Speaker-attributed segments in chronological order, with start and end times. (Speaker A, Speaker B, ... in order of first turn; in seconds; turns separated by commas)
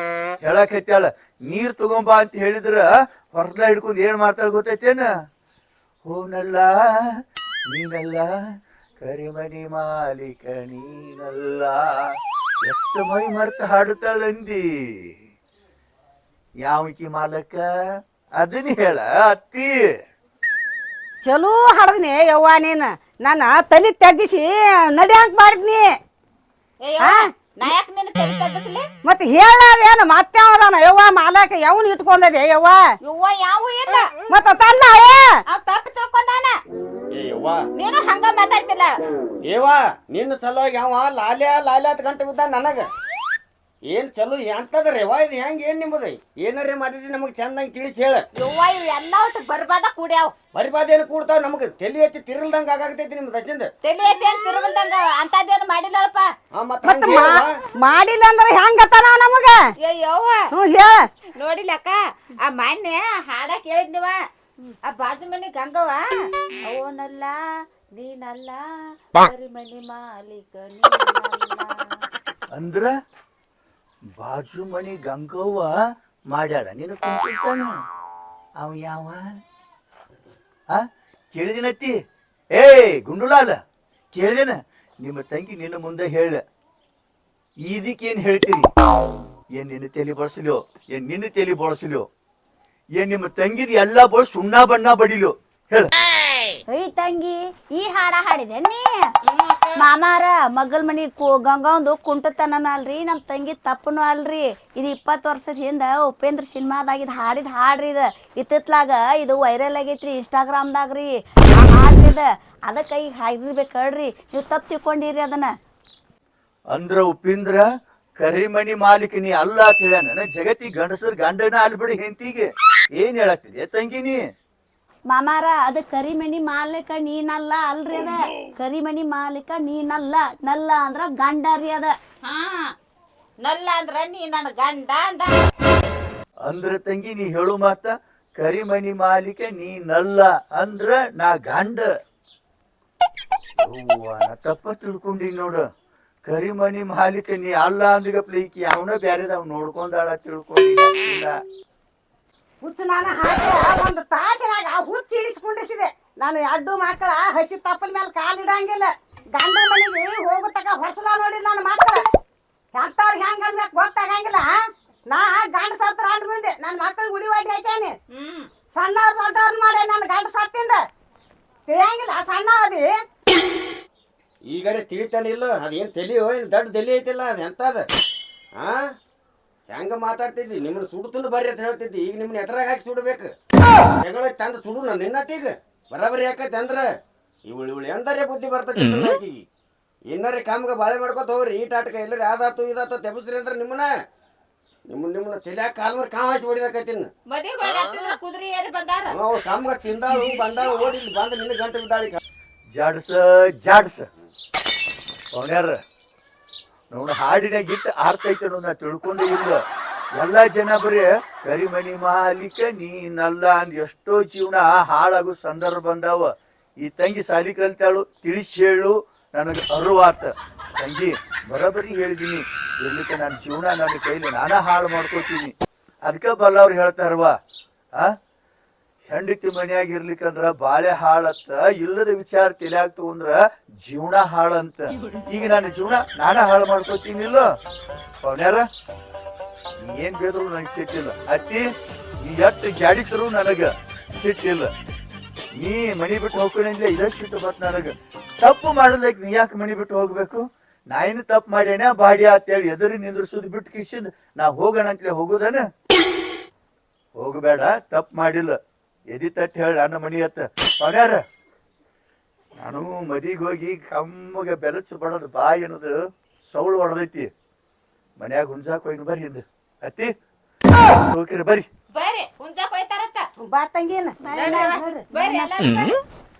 Speaker A: 0.4-5.1, Speaker A: 6.0-7.1, Speaker A: 7.7-8.3, Speaker A: 9.0-12.1, Speaker A: 12.6-15.2, Speaker A: 16.6-17.7, Speaker A: 18.4-19.8, Speaker B: 21.2-25.9, Speaker C: 26.8-28.9, Speaker B: 27.0-27.4, Speaker B: 29.0-32.8, Speaker C: 33.0-34.1, Speaker B: 34.3-35.3, Speaker C: 35.5-36.6, Speaker D: 37.1-37.6, Speaker C: 37.7-38.9, Speaker D: 39.4-42.9, Speaker D: 43.9-48.2, Speaker C: 48.4-50.3, Speaker D: 50.5-53.7, Speaker C: 53.8-56.3, Speaker D: 56.5-57.5, Speaker B: 56.8-59.6, Speaker C: 59.8-60.5, Speaker B: 60.5-61.0, Speaker C: 61.4-64.2, Speaker C: 64.8-66.1, Speaker C: 66.6-71.8, Speaker A: 72.5-72.9, Speaker A: 74.2-75.8, Speaker A: 76.3-77.7, Speaker A: 78.6-79.4, Speaker A: 80.7-81.9, Speaker A: 82.5-83.6, Speaker A: 84.1-86.4, Speaker A: 87.7-88.7, Speaker A: 89.5-92.0, Speaker A: 93.0-95.9, Speaker E: 96.7-99.1, Speaker C: 99.3-99.8, Speaker E: 99.8-115.5, Speaker A: 116.7-117.6, Speaker A: 118.2-124.2, Speaker E: 125.1-131.9, Speaker C: 132.2-132.7, Speaker C: 133.4-135.4, Speaker A: 136.4-141.9, Speaker A: 143.6-145.6, Speaker A: 146.2-151.3, Speaker B: 152.6-162.0, Speaker B: 162.7-164.5, Speaker B: 165.1-167.9, Speaker C: 168.1-168.5, Speaker B: 168.7-170.8, Speaker B: 171.7-172.9, Speaker D: 174.4-177.9, Speaker D: 179.7-183.3, Speaker D: 184.0-186.9, Speaker D: 187.4-189.4, Speaker D: 190.1-193.9, Speaker D: 194.9-197.1, Speaker C: 197.3-199.1, Speaker D: 199.1-202.2, Speaker A: 202.7-204.1, Speaker A: 205.3-205.8, Speaker A: 206.9-209.6, Speaker A: 210.1-216.3, Speaker A: 216.8-227.3, Speaker A: 229.1-237.5, Speaker A: 238.2-238.7, Speaker A: 239.8-241.6, Speaker A: 242.2-244.7, Speaker A: 245.6-255.6, Speaker A: 257.2-258.6, Speaker A: 259.1-261.2, Speaker A: 262.6-267.3, Speaker A: 268.2-270.1, Speaker A: 270.9-271.6, Speaker C: 271.9-273.2, Speaker B: 273.4-275.1, Speaker E: 274.2-275.5, Speaker C: 274.3-276.0